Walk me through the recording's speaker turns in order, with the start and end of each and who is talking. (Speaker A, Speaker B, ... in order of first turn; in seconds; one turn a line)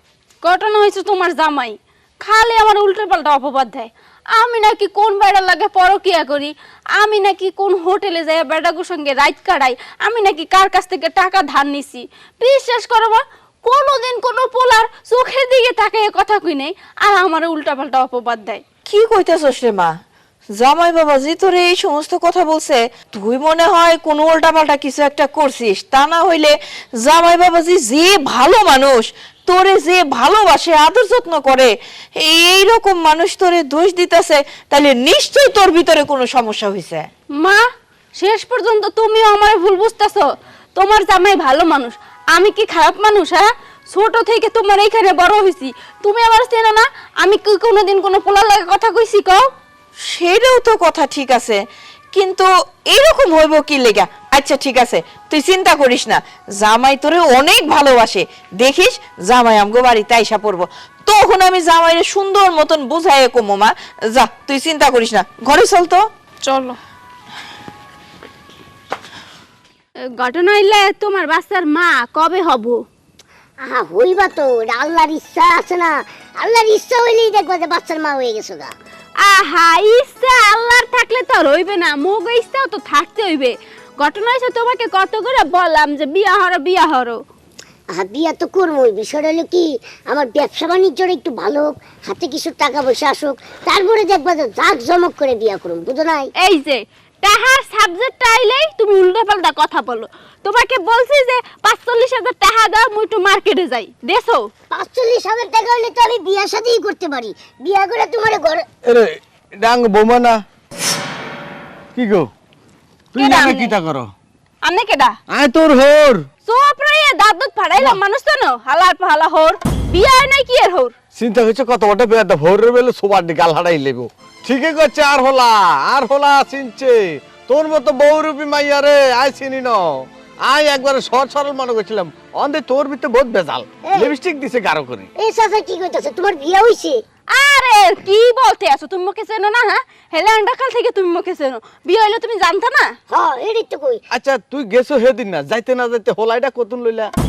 Speaker A: 0.4-18.6
Speaker B: 18.9-20.0
Speaker B: 20.6-37.1
Speaker A: 37.3-37.6
Speaker A: 38.1-49.5
Speaker B: 50.1-51.6
Speaker B: 52.1-66.1
Speaker A: 66.4-66.8
Speaker A: 70.2-72.8
Speaker C: 73.6-78.7
Speaker A: 79.2-87.2
Speaker C: 87.9-96.3
Speaker A: 96.4-104.5
Speaker C: 104.7-108.6
Speaker D: 108.8-110.4
Speaker D: 112.0-112.3
Speaker D: 113.1-114.1
Speaker A: 113.2-113.8
Speaker A: 114.6-115.1
Speaker D: 115.3-116.2
Speaker A: 116.5-120.9
Speaker D: 121.2-129.8
Speaker D: 130.4-135.1
Speaker C: 135.2-137.0
Speaker A: 137.3-142.9
Speaker C: 143.1-144.0
Speaker D: 144.1-147.1